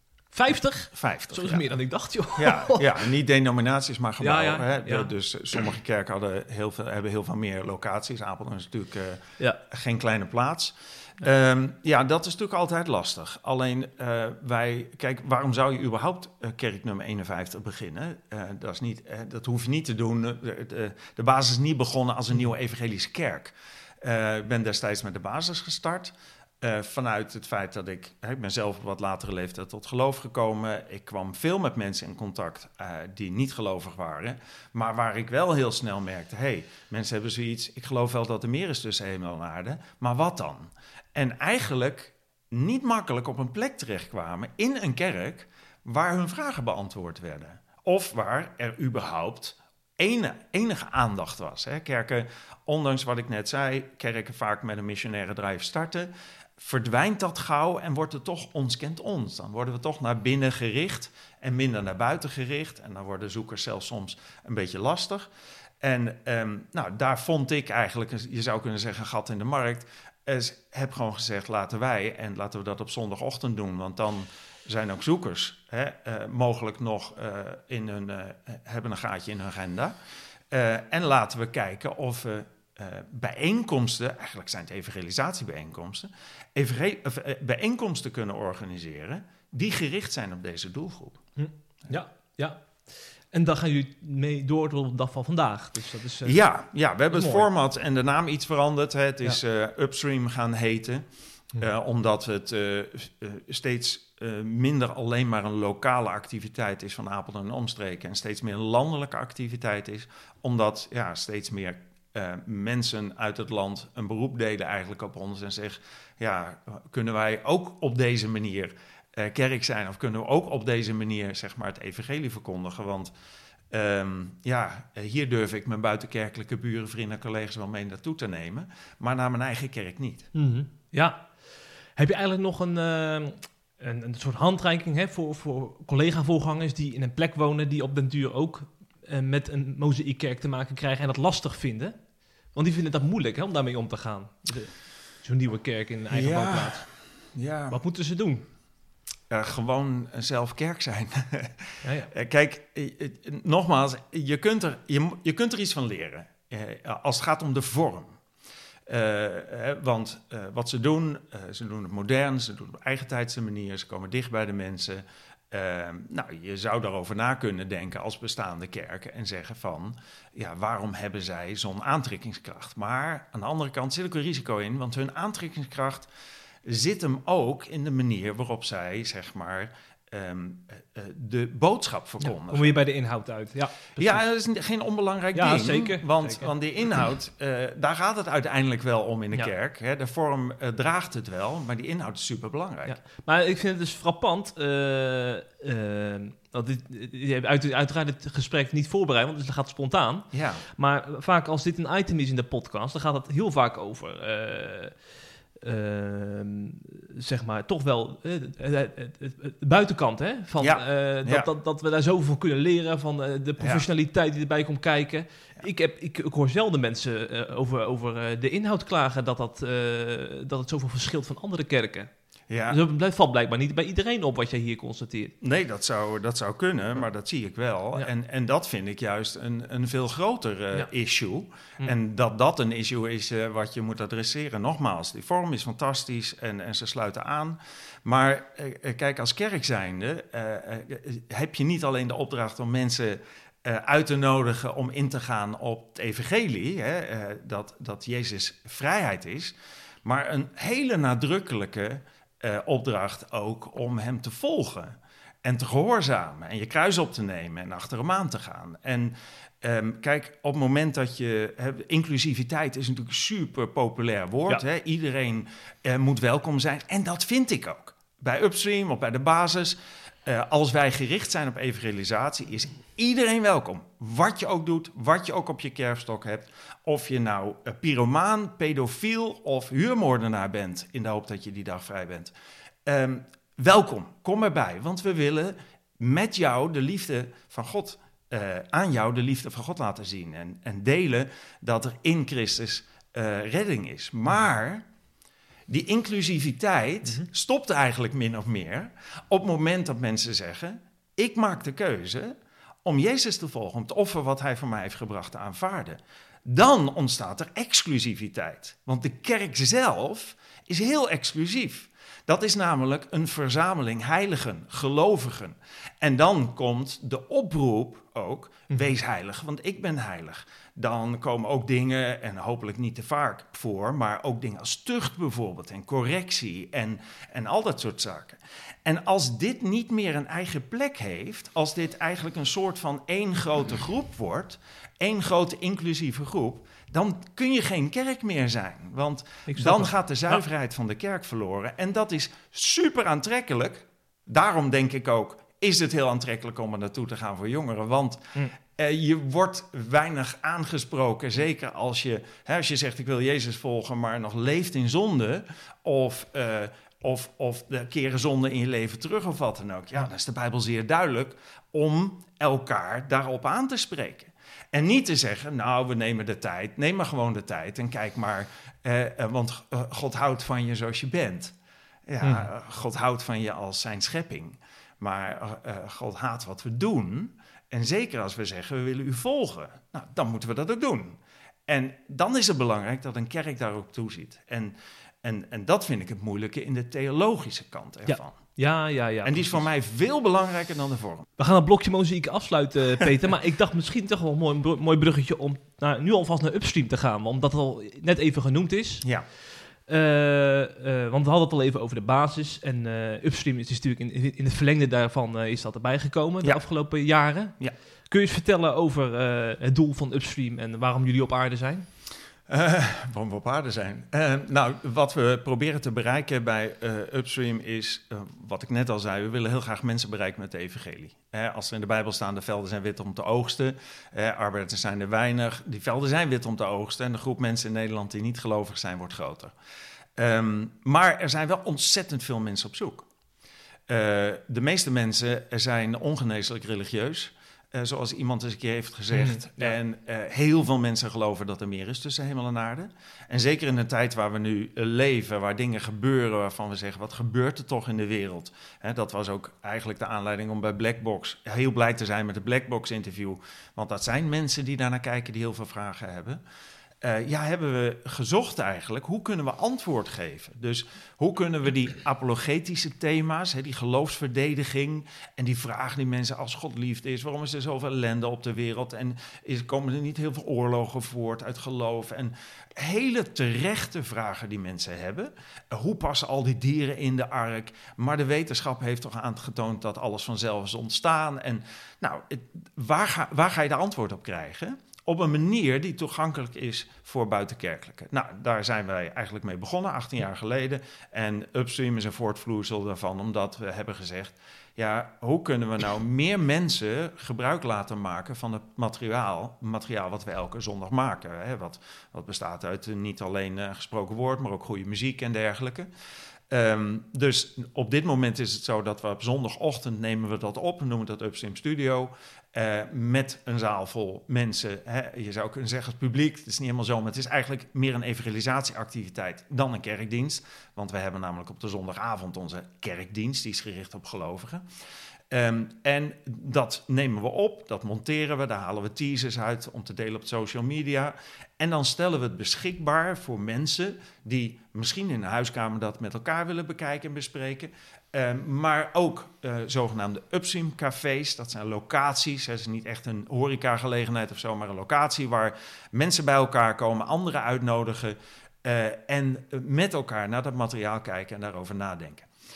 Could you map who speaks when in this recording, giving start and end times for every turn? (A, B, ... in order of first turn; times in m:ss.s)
0:00.3-0:03.0 A
0:00.9-0:01.7 B
0:02.4-1:05.3 B
0:04.2-0:05.1 A
1:05.8-1:19.9 B
1:20.5-1:31.2 B
1:31.4-1:36.4 A
1:36.2-1:41.0 B
1:37.1-1:37.5 A
1:41.6-2:03.1 B
2:03.7-2:10.3 B
2:10.3-2:26.8 A
2:26.1-2:27.8 B
2:27.7-2:28.4 A
2:29.3-2:38.2 B
2:31.8-2:32.1 A
2:38.9-2:56.1 B
2:56.6-3:02.7 B
3:02.2-3:04.2 A
3:04.0-3:13.0 B
3:05.4-3:06.5 A
3:12.9-3:25.1 A
3:20.3-3:20.6 B
3:25.6-3:42.1 A
3:30.6-3:31.5 B
3:33.6-3:33.8 B
3:42.5-3:42.8 B
3:42.7-3:45.3 A
3:45.4-4:42.3 B
4:42.9-4:54.8 B
4:55.7-6:11.6 B
5:39.5-5:40.4 A
6:12.1-6:28.4 B
6:12.2-6:12.5 A
6:28.1-6:29.6 A
6:29.2-6:31.3 B
6:31.4-6:47.6 A
6:48.1-6:51.9 A
6:52.5-7:09.5 B
7:10.2-7:13.1 B
7:13.9-7:36.4 B
7:19.1-7:19.8 A
7:37.0-8:25.9 B
8:26.5-8:44.6 B
8:45.3-9:12.3 B